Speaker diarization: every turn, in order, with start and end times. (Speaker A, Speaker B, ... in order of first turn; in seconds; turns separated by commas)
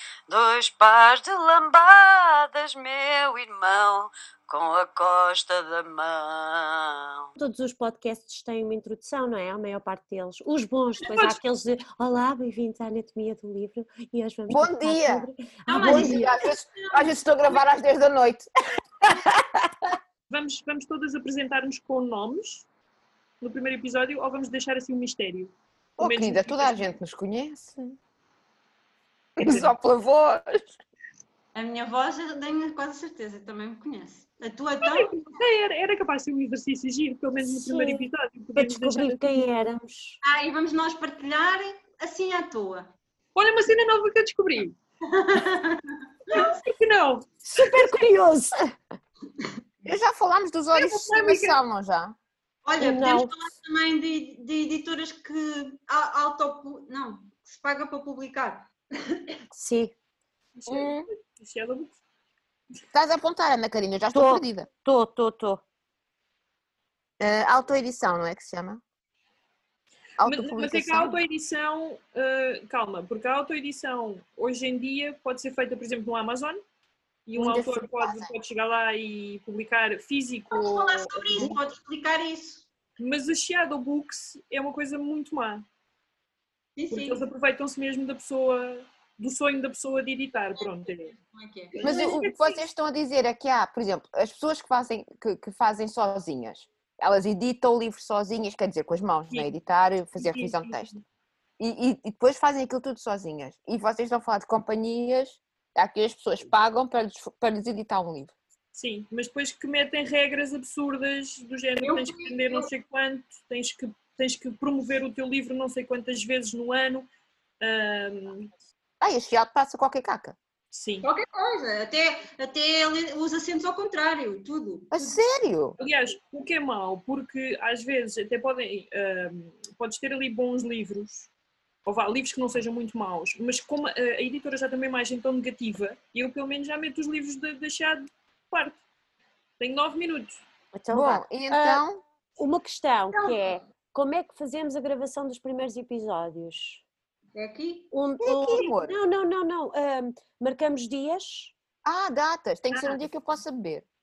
Speaker A: 0.3-6.9, Speaker B: 0.3-6.3, Speaker B: 7.4-16.3, Speaker C: 11.0-11.4, Speaker D: 14.5-18.5, Speaker E: 15.7-17.6, Speaker C: 20.3-22.7, Speaker C: 23.4-26.9, Speaker D: 26.0-28.0, Speaker D: 29.4-30.8, Speaker C: 29.4-29.7, Speaker E: 31.5-35.1, Speaker C: 34.8-39.4, Speaker B: 37.4-40.2, Speaker E: 40.2-42.9, Speaker C: 43.3-44.8, Speaker E: 45.1-46.5, Speaker C: 46.3-47.9, Speaker B: 47.5-48.7, Speaker D: 49.8-52.1, Speaker C: 50.7-51.6, Speaker E: 52.6-59.3, Speaker B: 52.8-53.3, Speaker B: 59.5-59.9, Speaker C: 60.6-62.0, Speaker D: 60.7-61.1, Speaker D: 62.9-64.7, Speaker B: 64.1-65.6, Speaker D: 67.2-68.8, Speaker D: 70.2-71.2, Speaker C: 70.2-76.6, Speaker C: 77.2-81.6, Speaker D: 77.3-78.3, Speaker E: 80.5-82.7, Speaker C: 83.0-85.6, Speaker E: 86.8-87.2, Speaker C: 86.9-91.1, Speaker E: 90.6-91.8, Speaker C: 91.7-92.6, Speaker D: 91.8-101.0, Speaker C: 100.2-101.0, Speaker D: 101.6-108.3, Speaker C: 108.7-117.1, Speaker E: 111.8-112.7, Speaker C: 117.6-118.5, Speaker D: 119.0-120.4, Speaker C: 120.7-121.1, Speaker E: 121.0-125.2, Speaker D: 124.9-125.8, Speaker C: 125.8-131.3, Speaker C: 131.8-138.8, Speaker C: 139.6-140.4, Speaker B: 140.7-141.8, Speaker D: 140.9-142.0, Speaker B: 142.4-146.8, Speaker E: 143.1-143.5, Speaker E: 147.3-147.9, Speaker B: 147.9-151.5, Speaker D: 148.2-149.0, Speaker D: 151.8-153.8